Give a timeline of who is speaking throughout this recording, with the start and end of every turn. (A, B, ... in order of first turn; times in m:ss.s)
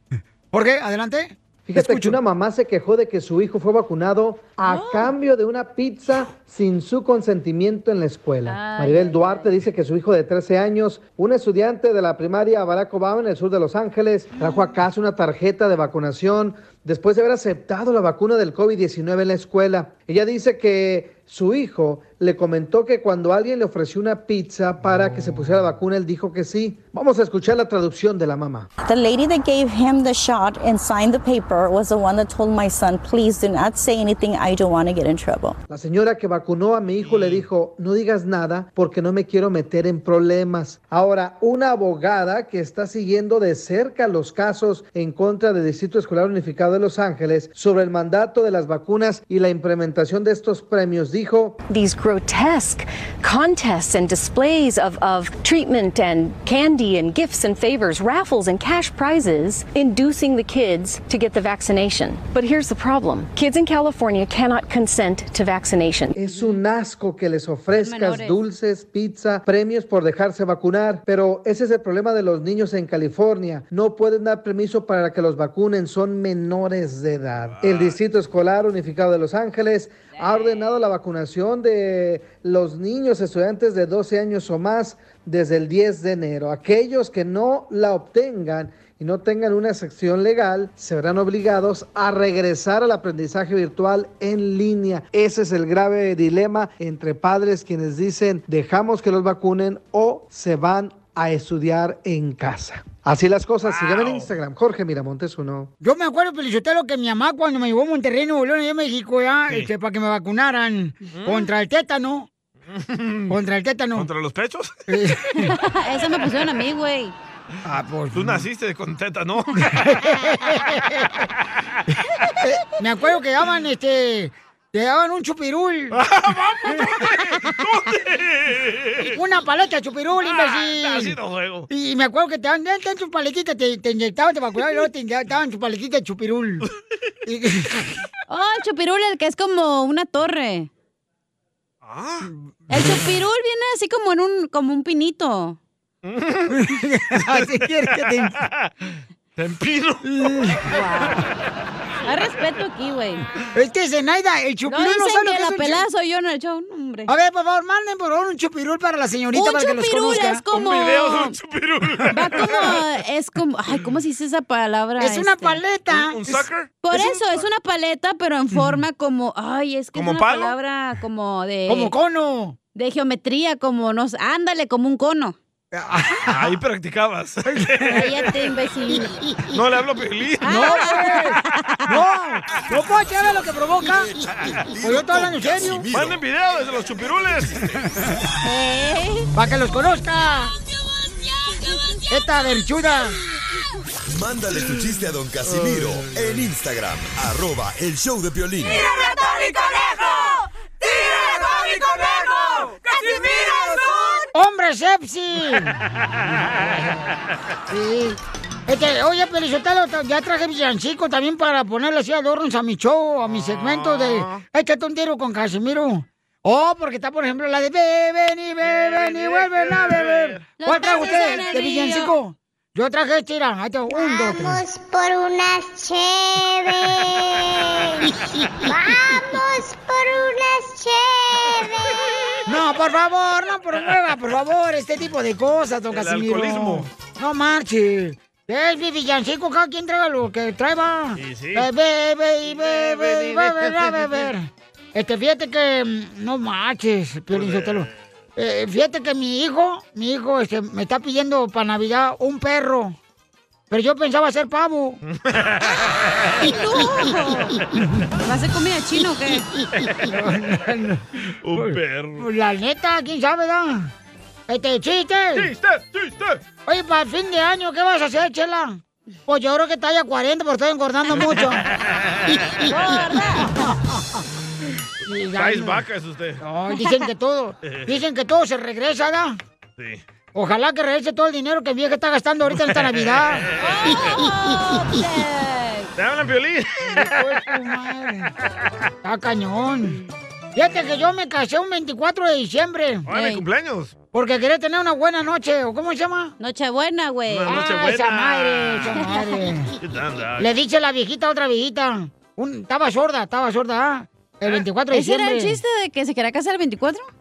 0:00.5-0:02.2 A
0:01.7-0:28.7 B
0:04.6-0:05.1 C
0:08.4-0:09.5 C
0:28.8-0:35.6 D
0:35.7-0:51.6 B
0:37.0-0:37.5 E
0:51.7-1:06.2 F
1:06.1-1:45.7 B
1:06.3-1:06.6 C
1:07.8-1:08.4 C
1:17.5-1:18.0 E
1:43.6-1:44.3 E
1:45.8-1:52.3 A
1:51.1-1:51.5 E
1:52.7-1:53.3 E
1:53.3-1:54.1 A
1:54.0-1:54.7 E
1:54.9-1:55.5 A
1:55.3-1:57.1 C
1:57.6-1:58.4 A
1:58.1-1:59.9 E
1:59.6-2:01.2 A
2:02.4-2:06.0 A
2:05.9-2:09.2 E
2:09.1-2:11.2 A
2:10.2-2:11.7 E
2:11.7-2:16.7 A
2:17.2-2:18.0 A
2:18.3-2:20.7 C
2:21.8-2:22.3 E
2:22.7-2:25.6 C
2:26.0-2:26.6 E
2:26.5-2:28.4 A
2:27.1-2:30.6 E
2:30.0-2:30.8 A
2:30.7-2:31.2 C
2:32.0-2:33.2 C
2:33.5-2:35.8 A
2:34.7-2:37.1 C
2:37.1-2:40.4 A
2:39.3-2:41.4 C
2:40.5-2:42.8 E
2:42.1-2:45.6 C
2:45.0-2:46.9 A
2:45.9-2:47.2 E
2:46.8-2:51.9 C
2:49.9-2:50.6 E
2:51.7-2:52.6 A
2:52.7-2:55.4 C
2:55.7-2:56.5 A
2:56.3-2:58.1 E
2:57.5-2:58.1 A
2:57.9-2:59.2 C
2:59.0-2:59.5 A
2:59.5-3:00.9 E
3:00.4-3:01.9 C
3:00.4-3:04.3 A
3:04.7-3:06.2 G
3:04.8-3:05.9 A
3:05.9-3:07.9 E
3:08.4-3:09.3 C
3:09.3-3:10.5 A
3:12.1-3:13.2 A
3:14.1-3:18.8 G
3:24.3-3:25.8 A
3:26.4-3:27.1 A
3:27.7-3:44.6 A
3:33.2-3:34.4 E
3:38.6-3:40.4 E
3:40.6-3:42.1 C
3:43.9-3:48.1 H
3:48.6-3:52.4 H
3:52.5-4:13.0 A
3:55.9-3:56.9 E
4:01.2-4:01.7 E
4:02.5-4:04.3 E
4:07.3-4:07.9 E
4:13.7-4:15.0 A
4:15.1-4:16.5 E
4:16.4-4:17.5 C
4:18.2-4:19.5 C
4:20.0-4:23.9 A
4:21.4-4:22.3 E
4:24.5-4:25.5 A
4:25.3-4:26.4 E
4:26.6-4:31.6 A
4:31.1-4:32.5 E
4:32.5-4:32.7 A
4:32.6-4:33.6 C
4:33.3-4:34.2 A
4:35.0-4:35.8 A
4:35.3-4:36.4 E
4:36.4-4:39.4 A
4:37.6-4:38.0 E
4:40.3-4:43.5 A
4:42.5-4:44.1 E
4:43.6-4:45.9 C
4:46.0-4:47.3 E
4:46.9-4:48.3 A
4:49.0-4:50.0 A
4:50.5-4:53.1 A
4:53.1-4:53.9 E
4:53.1-4:53.4 C
4:54.1-4:56.3 A
4:56.4-4:57.6 C
4:57.3-4:59.0 E
4:57.5-4:59.7 A
4:59.8-5:00.5 E
5:00.4-5:05.6 A
5:04.9-5:07.1 C